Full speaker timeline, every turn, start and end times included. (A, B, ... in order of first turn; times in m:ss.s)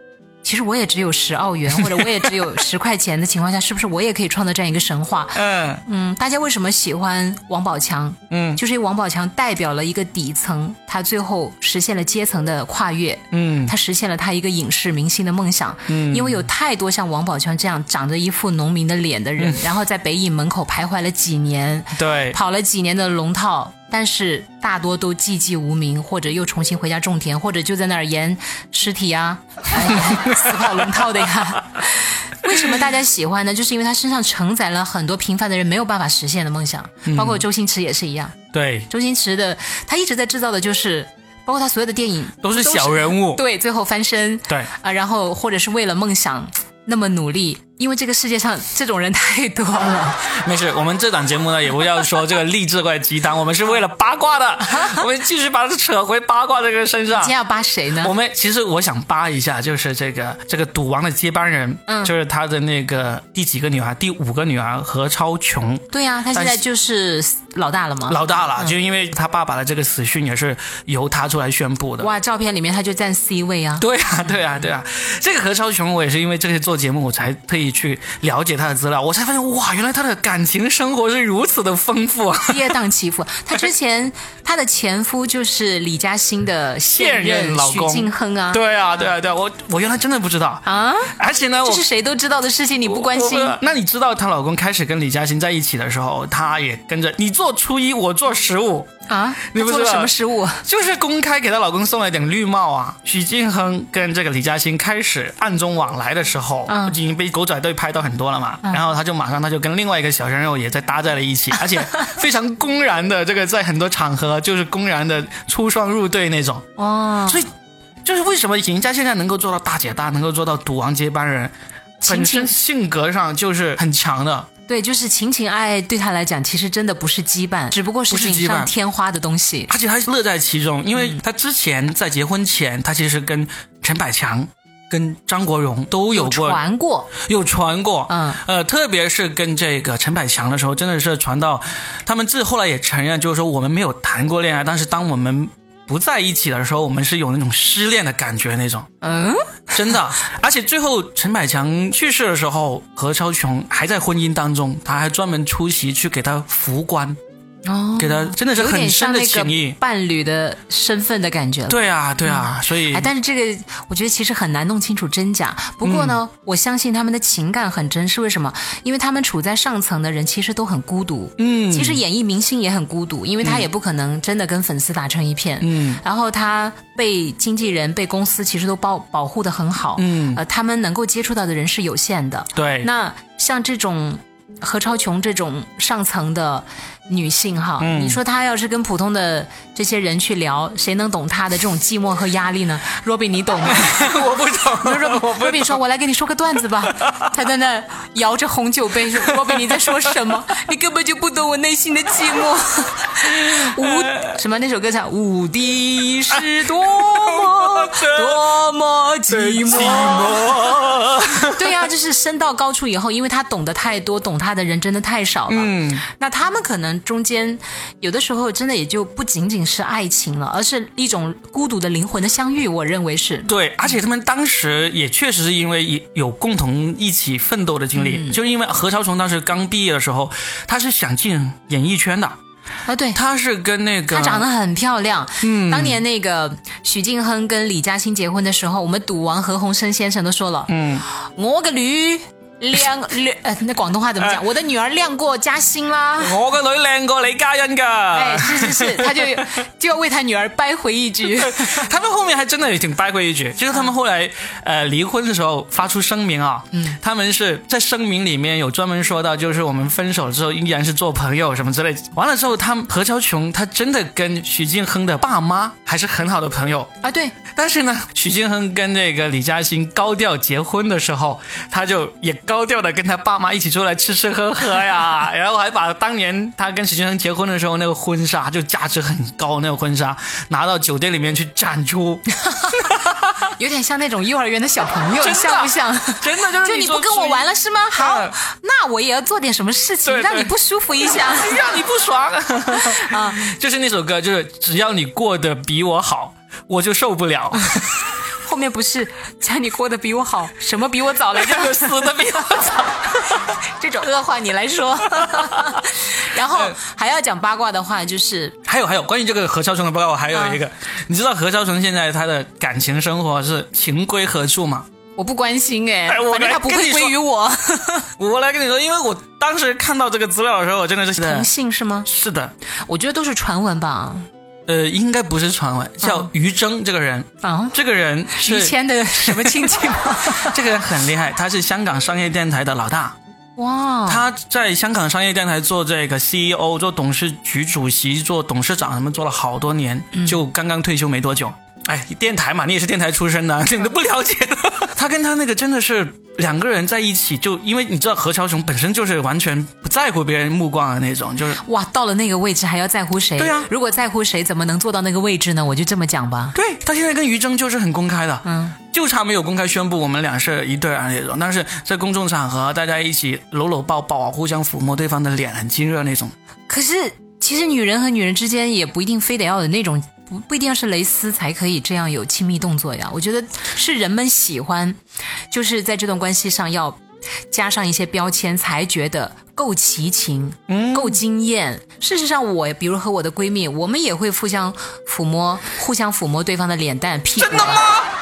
0:00.4-0:38.4 A
0:05.4-0:05.8 B
0:08.3-0:08.6 B
0:13.3-0:13.7 B
0:15.9-0:16.4 B
0:21.9-0:22.4 B
0:30.0-0:30.8 B
0:37.0-0:37.4 B
0:38.5-0:38.9 B
0:38.9-0:50.2 A
0:42.4-0:43.4 B
0:50.3-0:57.3 B
0:57.1-0:58.1 A
0:58.0-1:06.6 B
1:01.9-1:02.1 A
1:05.9-1:08.8 A
1:08.1-1:12.1 B
1:12.0-1:13.8 A
1:13.8-1:22.7 B
1:22.5-1:28.6 A
1:26.9-1:30.6 B
1:30.7-1:33.6 A
1:31.2-1:31.8 B
1:32.9-1:38.9 B
1:39.1-1:40.6 A
1:39.5-1:40.1 B
1:40.6-1:56.6 B
1:46.7-1:47.0 A
1:56.8-1:57.5 A
1:58.0-2:01.5 B
2:02.0-2:02.5 A
2:02.1-2:04.5 B
2:04.7-2:09.7 A
2:08.1-2:08.7 B
2:09.7-2:16.6 B
2:16.1-2:17.1 A
2:17.2-2:28.9 B
2:18.1-2:18.4 A
2:29.0-2:29.5 A
2:29.7-2:37.2 B
2:37.6-3:14.2 A
2:38.0-2:39.8 B
2:41.7-2:43.1 B
2:45.8-2:46.2 B
2:51.4-2:52.0 B
2:55.6-2:56.0 B
3:00.0-3:00.4 B
3:02.6-3:02.9 B
3:07.8-3:08.2 B
3:13.6-3:15.8 B
3:14.8-3:43.5 A
3:23.5-3:24.3 B
3:26.8-3:28.5 B
3:29.3-3:31.7 B
3:35.5-3:36.0 B
3:43.5-3:52.4 B
3:48.0-3:48.4 A
3:52.9-3:53.2 A
3:53.1-3:54.5 B
3:54.1-4:06.4 A
3:55.4-3:56.0 B
4:00.7-4:01.0 B
4:06.2-4:09.4 B
4:08.1-4:11.9 A
4:11.3-4:26.9 B
4:27.0-4:27.4 A
4:27.6-4:42.2 B
4:42.4-4:42.9 A
4:42.8-4:43.5 B
4:43.6-4:51.8 A
4:45.2-4:48.4 B
4:50.0-4:57.8 B
4:52.7-4:53.4 A
4:57.6-5:02.3 A
5:01.4-5:03.2 B
5:03.2-5:08.6 A
5:08.7-5:14.9 B
5:10.3-5:10.6 A
5:15.2-5:18.1 A
5:16.1-5:17.2 B
5:18.2-5:21.5 B
5:21.2-5:22.1 A
5:22.1-5:22.5 B
5:22.9-5:24.3 A
5:24.7-5:33.2 B
5:26.0-5:26.3 A
5:27.4-5:27.8 A
5:28.3-5:30.6 A
5:33.6-5:34.2 A
5:34.1-5:51.6 B
5:51.6-5:56.6 A
5:53.4-5:53.7 B
5:56.6-6:06.3 B
5:58.4-5:58.8 A
6:06.7-6:15.0 A
6:15.5-6:17.0 A
6:17.5-6:27.9 A
6:20.7-6:21.2 B
6:27.4-6:28.1 B